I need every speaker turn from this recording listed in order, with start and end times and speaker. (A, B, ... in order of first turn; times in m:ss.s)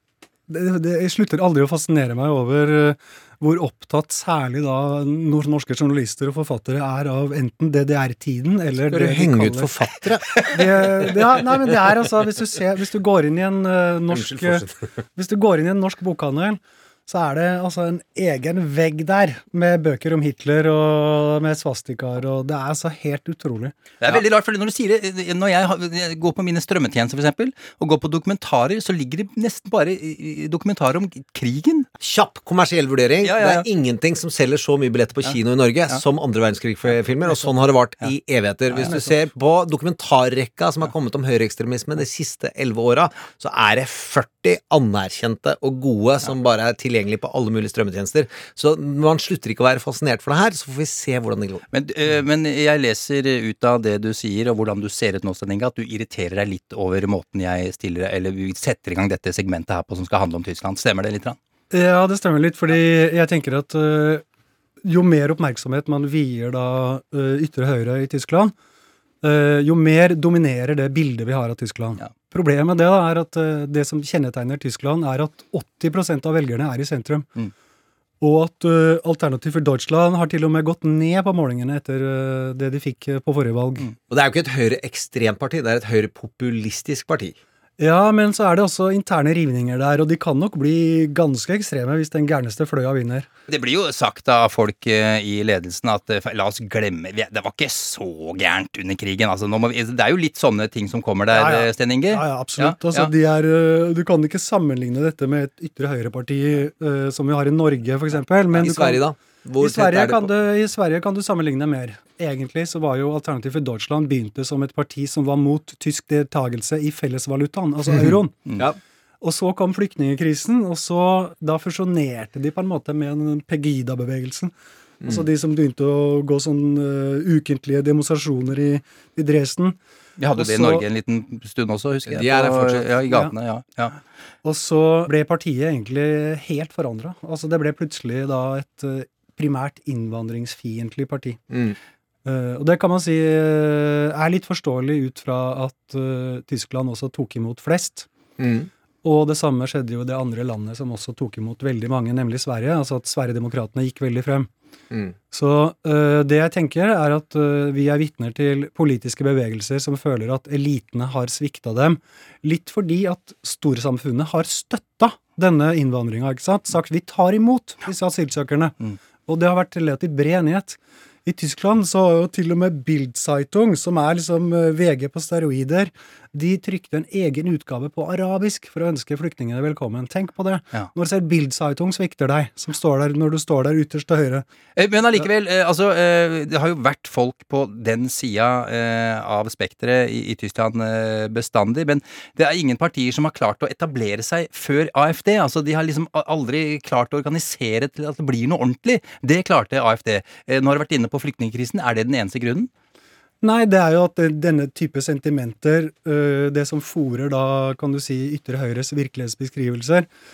0:00.5-0:09.7 A
0:08.9-0:10.6 B
0:10.4-0:14.6 A
0:14.1-0:14.7 B
0:15.2-0:23.8 A
0:24.0-0:31.9 C
0:32.0-0:51.6 B
0:33.2-0:33.6 C
0:38.7-0:39.1 C
0:51.7-1:01.4 C
1:01.7-1:04.2 A
1:04.8-1:08.5 A
1:09.2-1:17.3 A
1:18.2-1:23.9 A
1:24.1-1:27.4 B
1:27.8-1:33.3 A
1:33.5-1:43.1 C
1:41.3-1:49.0 A
1:48.5-1:50.3 B
1:49.6-1:58.4 A
1:57.9-1:58.8 B
1:59.2-2:04.5 A
2:05.0-2:09.8 A
2:10.2-2:14.0 C
2:10.4-2:10.8 A
2:12.1-2:13.0 B
2:14.4-2:21.4 A
2:21.5-2:21.8 B
2:22.3-2:28.1 A
2:28.4-2:28.7 B
2:29.0-2:34.5 A
2:35.3-3:04.4 A
3:04.8-3:22.7 C
3:23.4-3:30.1 A